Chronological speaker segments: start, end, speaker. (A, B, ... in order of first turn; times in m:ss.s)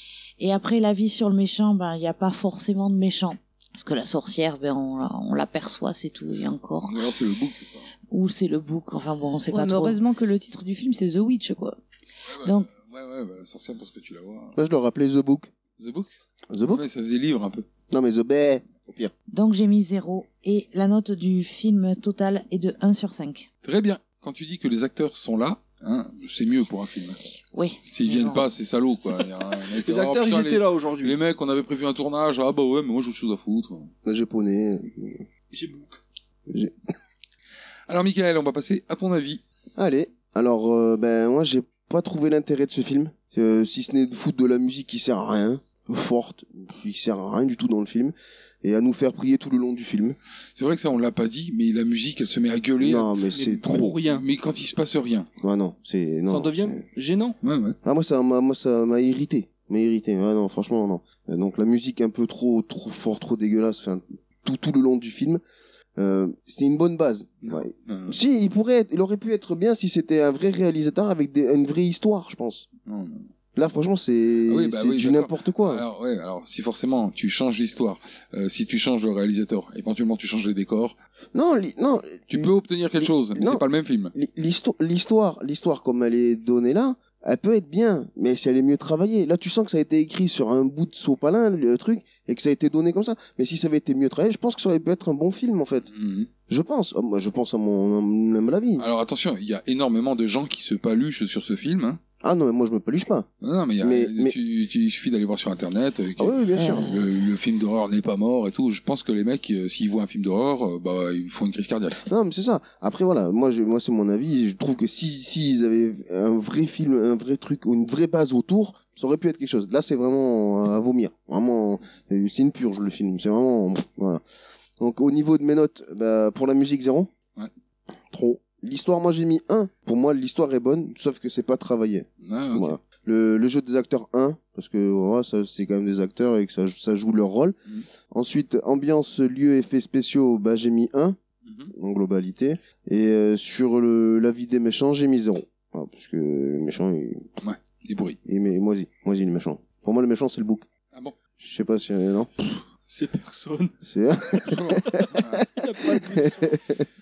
0:00.4-0:07.0 A
0:06.8-0:07.8 B
0:08.1-0:10.0 A
0:09.5-0:11.8 C
0:12.3-0:14.6 B
0:14.6-0:15.5 D
0:15.8-0:16.1 B
0:16.5-0:16.8 D
0:16.6-0:17.7 B
0:17.9-0:19.1 D
0:19.3-0:23.5 A
0:23.6-0:27.2 B
0:27.5-0:28.5 A
0:27.9-0:33.9 B
0:29.8-0:31.2 E
0:34.0-0:35.2 D
0:35.5-0:36.0 E
0:36.5-0:36.7 D
0:37.9-0:39.4 B
0:39.8-0:50.2 D
0:50.6-0:53.1 B
0:52.8-0:54.0 D
0:53.3-0:54.3 E
0:54.1-0:55.3 B
0:55.4-0:56.8 D
0:56.3-0:57.4 E
0:57.4-0:57.8 B
0:57.8-1:05.4 D
1:06.0-1:12.7 D
1:07.4-1:08.2 B
1:12.9-1:13.3 B
1:13.6-1:15.8 D
1:14.5-1:21.0 B
1:21.3-1:23.6 D
1:22.3-1:24.1 B
1:24.1-1:35.9 D
1:35.9-1:36.3 B
1:36.5-1:38.9 D
1:38.8-1:42.0 B
1:42.2-1:43.3 D
1:43.4-1:52.0 B
1:43.8-1:44.4 D
1:46.2-1:46.9 D
1:52.1-2:04.2 D
2:04.8-2:07.1 D
2:08.1-2:17.6 D
2:12.2-2:12.8 B
2:18.1-2:21.2 D
2:21.4-2:21.7 B
2:21.7-2:27.3 D
2:27.4-2:28.2 B
2:28.3-2:30.7 D
2:31.4-2:32.6 D
2:32.9-2:33.8 E
2:33.8-2:35.2 D
2:34.5-2:35.4 B
2:35.6-2:36.6 E
2:35.8-2:36.8 D